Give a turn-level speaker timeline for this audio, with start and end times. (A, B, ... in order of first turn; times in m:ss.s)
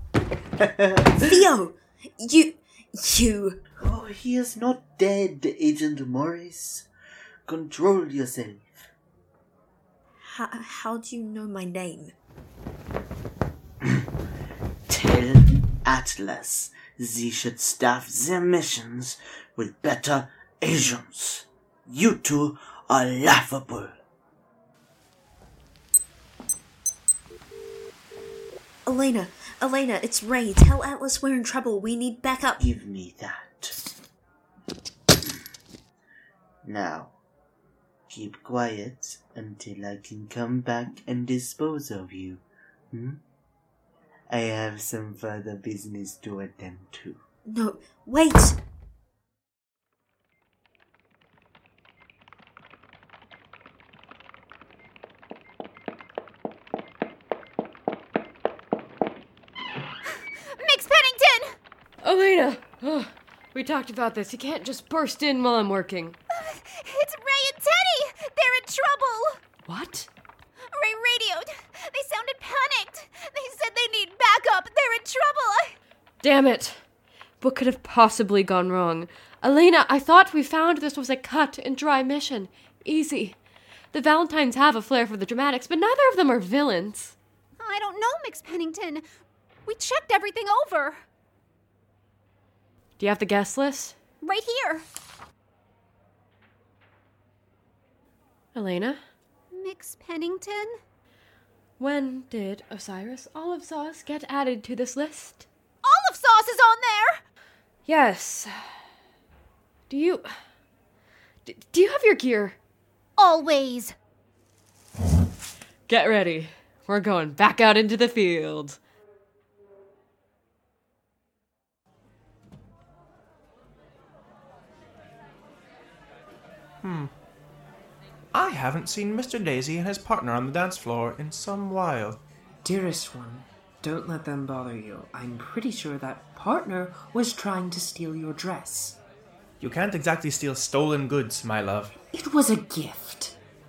0:00.6-0:01.2 A
0:01.2-0:03.6 B
0:03.8-0:06.9 A
0:07.5-0:08.8 A
0:10.2-0:12.1 B
0:14.9-0:24.0 A
0:28.9-0:32.7 B
0:32.6-0:33.8 A
0:36.6-0:37.2 A
0:38.1-0:43.2 A
0:44.3-0:47.2 A
0:47.4-0:48.6 B
1:00.4-1:01.6 C
1:02.0-1:06.2 D
1:06.3-1:09.4 C
1:09.6-1:10.1 D
1:10.7-1:15.8 C
1:16.2-1:16.8 D
1:17.4-1:23.4 D
1:23.9-1:27.2 D
1:27.6-1:29.0 C
1:29.7-1:31.0 C
1:33.0-1:34.0 D
1:34.2-1:34.8 C
1:38.6-1:39.0 D
1:39.5-1:40.8 C
1:41.8-1:45.5 D
1:45.8-1:47.2 C
1:47.9-1:48.6 D
1:49.9-1:50.3 D
1:51.5-1:52.6 D
1:53.2-1:54.0 C
1:55.9-1:58.8 D
2:06.8-2:07.1 E
2:08.3-2:12.2 E
2:12.6-2:19.0 F
2:19.6-2:21.9 E
2:22.1-2:23.4 F